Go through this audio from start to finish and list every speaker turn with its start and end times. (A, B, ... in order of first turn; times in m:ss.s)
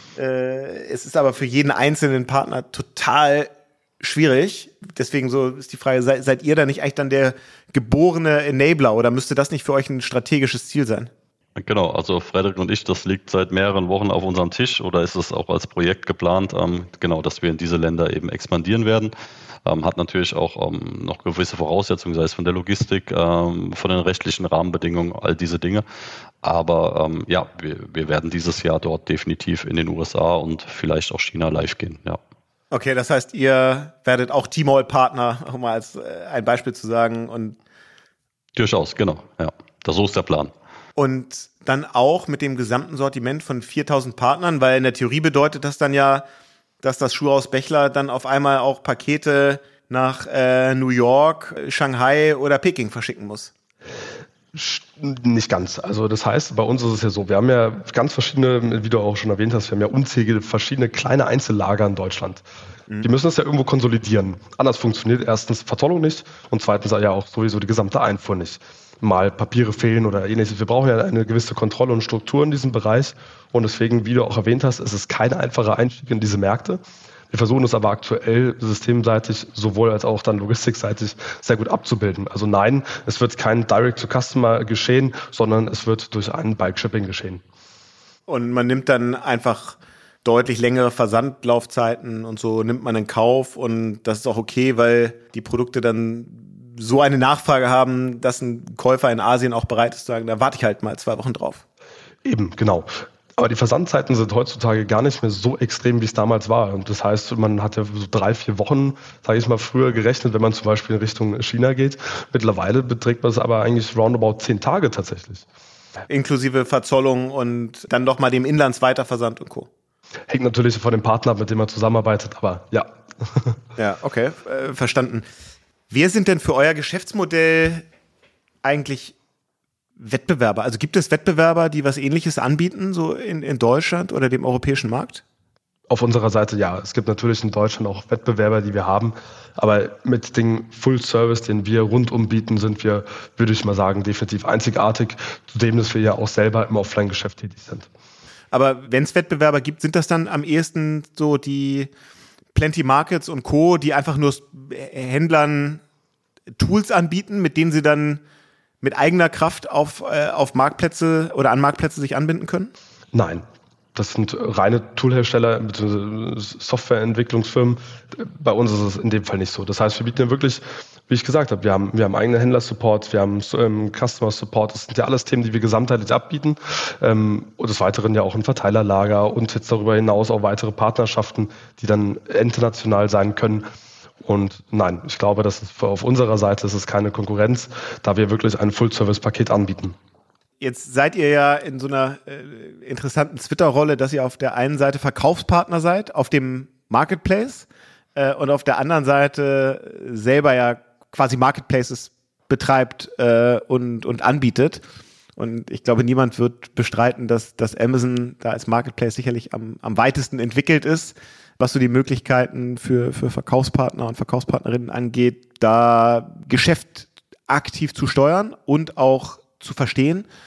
0:00.2-0:11.1 A
0:11.6-0:19.1 B
0:19.7-0:25.8 B
0:26.4-0:32.2 B
0:32.7-0:37.6 A
0:38.6-0:40.5 B
0:41.0-0:46.2 A
0:46.8-0:53.5 A
0:54.5-1:02.4 C
1:03.0-1:27.4 C
1:28.3-1:41.6 A
1:42.2-1:55.5 C
1:56.1-1:59.7 A
2:00.3-2:03.6 C
2:03.8-2:05.3 A
2:05.9-2:07.8 A
2:08.6-2:09.2 A
2:10.0-2:15.2 A
2:15.9-2:27.9 C
2:28.5-2:31.9 A
2:32.5-2:35.8 A
2:36.6-2:38.2 A
2:38.8-2:42.7 A
2:43.1-3:03.6 C
3:04.2-3:10.0 C
3:10.6-3:24.8 A
3:25.4-3:40.3 A